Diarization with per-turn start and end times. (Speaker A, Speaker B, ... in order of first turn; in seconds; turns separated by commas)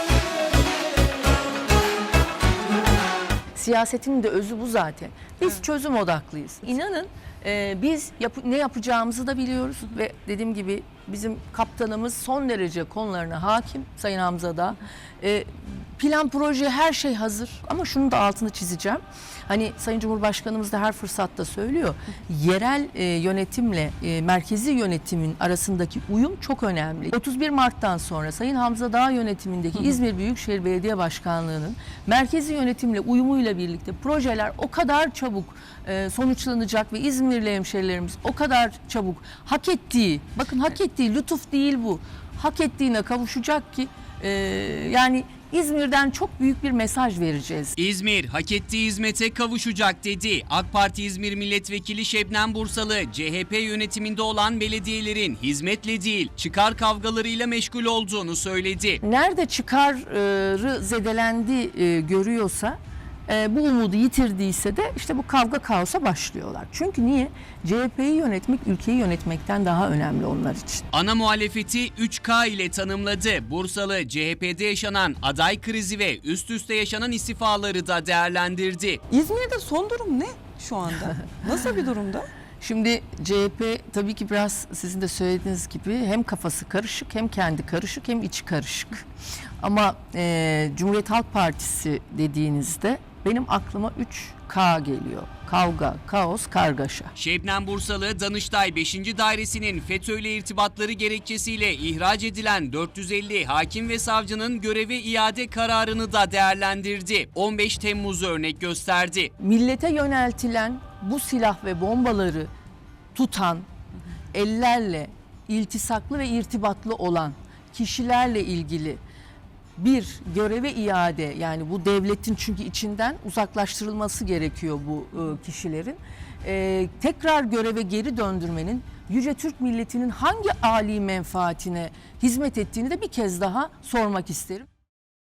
Speaker A: 3.5-47.8, Speaker B: 47.8-59.0, Speaker A: 59.0-70.9, Speaker B: 70.9-79.0, Speaker C: 79.1-82.3, Speaker A: 82.6-89.1, Speaker A: 89.6-97.1, Speaker B: 97.2-109.3, Speaker A: 109.4-112.5, Speaker A: 113.2-113.7, Speaker A: 114.3-119.0, Speaker A: 119.8-134.7